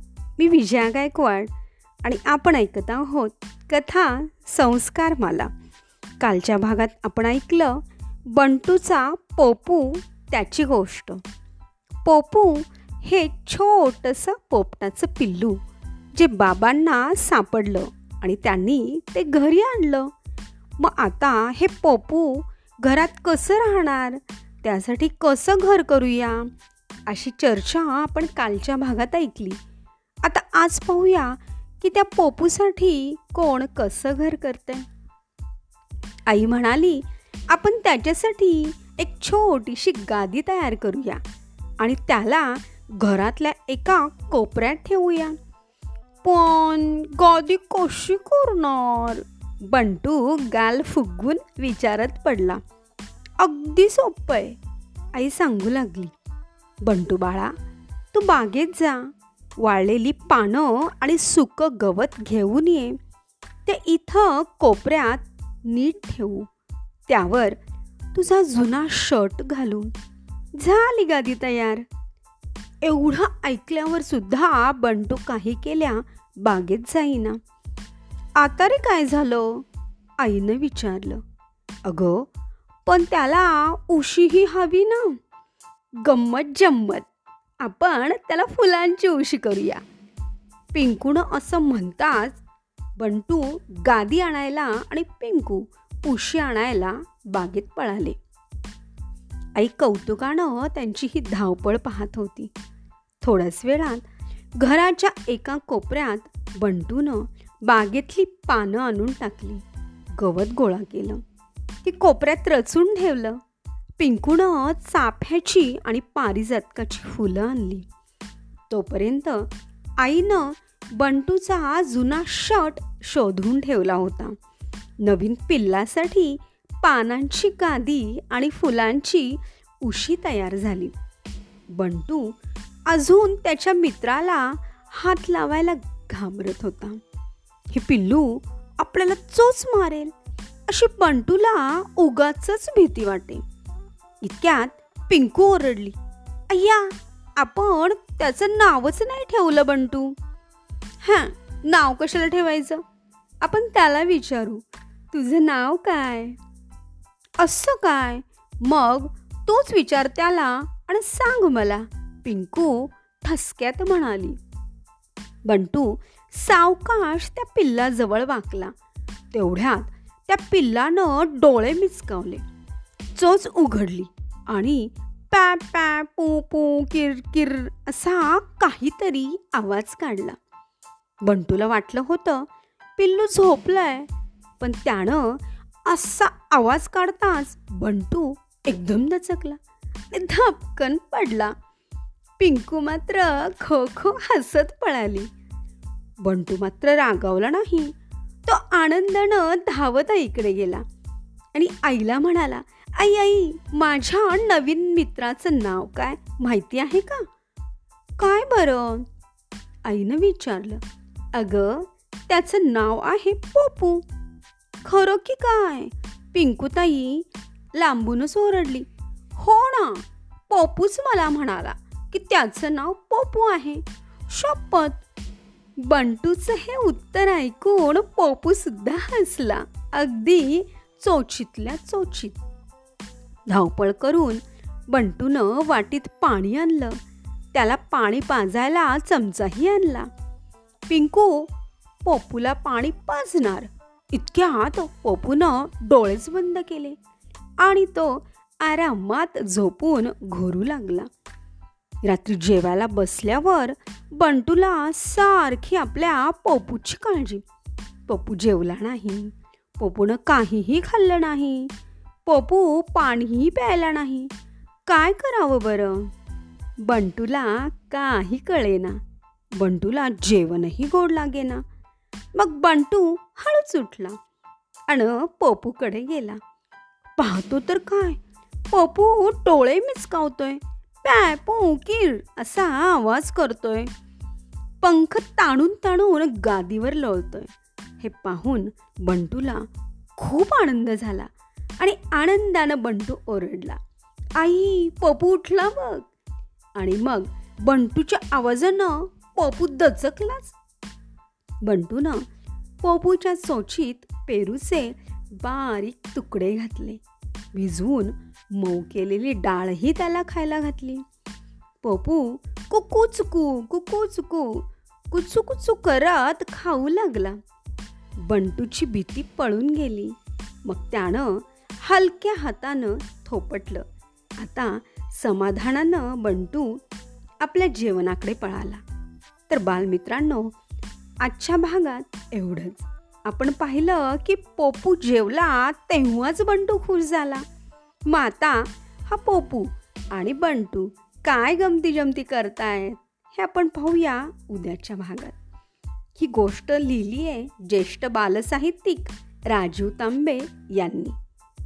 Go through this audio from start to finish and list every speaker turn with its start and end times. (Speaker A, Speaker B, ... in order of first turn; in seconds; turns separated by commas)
Speaker A: 0.4-1.5, Speaker A: 2.0-5.5, Speaker A: 6.2-7.8, Speaker A: 8.3-11.2, Speaker A: 12.0-15.6, Speaker A: 16.1-20.1, Speaker A: 20.8-26.5, Speaker A: 27.1-29.6, Speaker A: 30.2-34.8, Speaker A: 36.3-41.2, Speaker A: 41.8-45.3, Speaker A: 46.2-52.6, Speaker A: 53.4-54.6, Speaker A: 55.1-56.1, Speaker A: 56.8-57.5, Speaker A: 58.1-59.1, Speaker A: 59.6-63.0, Speaker A: 63.6-66.5, Speaker A: 67.1-67.6, Speaker A: 68.1-69.9, Speaker A: 70.5-71.8, Speaker A: 72.8-77.4, Speaker A: 78.4-79.6, Speaker A: 80.2-81.2, Speaker A: 81.8-82.2, Speaker A: 82.8-85.2, Speaker A: 86.0-87.1, Speaker A: 87.6-89.8, Speaker A: 90.7-92.4, Speaker A: 93.0-98.2, Speaker A: 99.5-102.5, Speaker A: 103.2-109.6, Speaker A: 110.2-111.2, Speaker A: 111.8-113.4, Speaker A: 114.0-117.8, Speaker A: 118.7-119.5, Speaker A: 120.0-124.3, Speaker A: 125.0-130.9, Speaker A: 131.7-132.3, Speaker A: 132.9-137.0, Speaker A: 137.7-140.1, Speaker A: 140.7-143.4, Speaker A: 144.2-145.9, Speaker A: 146.5-150.2, Speaker A: 151.0-152.8, Speaker A: 153.4-156.3, Speaker A: 157.4-164.4, Speaker A: 165.4-168.7, Speaker A: 169.3-172.4, Speaker A: 173.2-180.4, Speaker A: 181.2-184.1, Speaker A: 184.6-189.6, Speaker A: 190.1-191.5, Speaker A: 192.4-195.3, Speaker A: 196.2-197.9, Speaker A: 198.4-200.8, Speaker A: 201.5-207.2, Speaker A: 208.2-209.1, Speaker A: 209.8-210.8, Speaker A: 211.3-214.0, Speaker A: 214.8-225.0, Speaker A: 225.8-232.4, Speaker A: 233.5-237.0, Speaker A: 237.5-240.1, Speaker A: 240.9-241.5, Speaker A: 242.0-246.9, Speaker A: 247.6-251.1, Speaker A: 252.0-257.4, Speaker A: 258.1-261.7, Speaker A: 262.2-264.3, Speaker A: 264.9-266.1, Speaker A: 266.8-269.0, Speaker A: 269.6-271.6, Speaker A: 272.3-274.2, Speaker A: 274.9-276.4, Speaker A: 277.2-278.2, Speaker A: 278.7-283.9, Speaker A: 284.8-289.6, Speaker A: 290.2-293.8, Speaker A: 294.4-296.1, Speaker A: 296.8-300.5, Speaker A: 301.6-302.2, Speaker A: 302.8-307.0, Speaker A: 307.5-311.0, Speaker A: 311.8-317.4, Speaker A: 318.3-320.1, Speaker A: 320.6-323.8, Speaker A: 324.4-326.8, Speaker A: 327.4-328.8, Speaker A: 329.5-330.5, Speaker A: 331.2-337.4, Speaker A: 338.1-345.4, Speaker A: 346.2-351.1